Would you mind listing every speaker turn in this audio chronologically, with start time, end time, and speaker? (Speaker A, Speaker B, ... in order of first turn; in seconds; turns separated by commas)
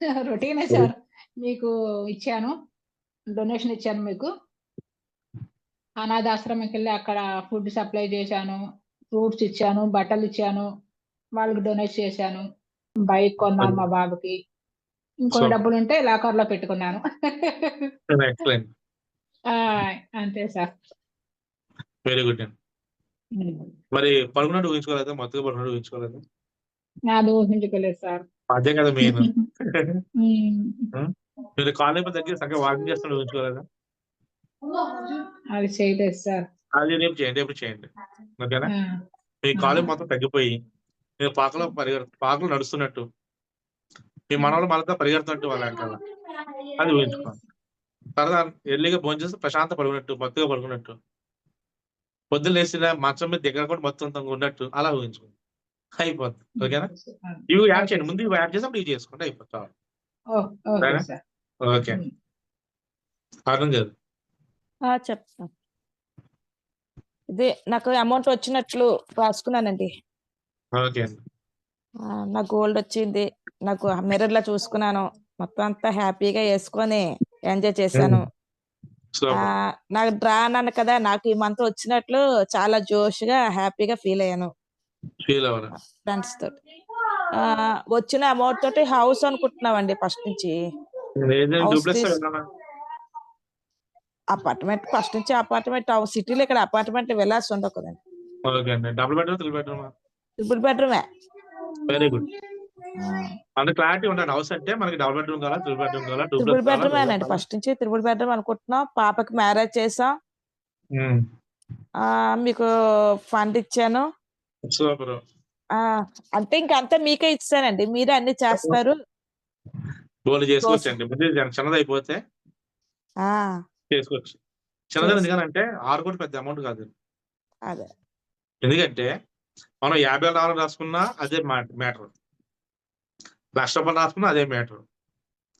Speaker A: 0.2-2.5, Speaker A: 3.4-4.3, Speaker A: 6.0-8.6, Speaker A: 9.1-10.7, Speaker A: 11.4-12.4, Speaker A: 13.1-14.3, Speaker A: 15.2-17.8, Speaker B: 15.3-15.6, Speaker B: 18.1-18.7, Speaker A: 19.5-20.7, Speaker B: 22.1-22.5, Speaker B: 23.9-26.2, Speaker A: 27.1-28.2, Speaker B: 28.5-30.0, Speaker A: 29.1-29.4, Speaker A: 30.2-30.7, Speaker B: 30.9-33.6, Speaker A: 34.7-36.4, Speaker B: 36.8-37.9, Speaker B: 38.4-38.7, Speaker B: 39.4-40.5, Speaker A: 39.6-39.9, Speaker B: 41.2-43.0, Speaker B: 44.3-46.0, Speaker B: 46.8-47.4, Speaker B: 48.2-51.0, Speaker B: 52.3-55.3, Speaker B: 56.0-56.9, Speaker A: 56.6-58.1, Speaker B: 57.5-59.7, Speaker A: 60.4-61.2, Speaker B: 61.7-62.0, Speaker B: 63.5-63.9, Speaker C: 64.9-65.5, Speaker C: 67.3-69.9, Speaker B: 70.8-71.2, Speaker C: 72.2-78.2, Speaker B: 77.9-78.2, Speaker B: 79.1-79.5, Speaker C: 79.4-84.5, Speaker B: 85.2-85.7, Speaker C: 85.8-86.6, Speaker C: 87.4-90.5, Speaker B: 91.2-92.4, Speaker C: 91.6-92.2, Speaker C: 94.3-98.0, Speaker B: 98.5-99.9, Speaker C: 100.4-101.0, Speaker B: 101.9-102.3, Speaker C: 103.0-103.3, Speaker B: 103.6-107.4, Speaker C: 106.4-110.1, Speaker C: 112.4-112.7, Speaker C: 113.3-114.0, Speaker B: 114.7-115.2, Speaker C: 116.4-118.9, Speaker B: 120.2-122.2, Speaker C: 120.6-120.9, Speaker C: 123.2-123.5, Speaker B: 123.9-124.4, Speaker B: 124.9-126.9, Speaker C: 125.0-125.3, Speaker B: 128.6-129.1, Speaker B: 129.8-132.1, Speaker B: 133.6-134.8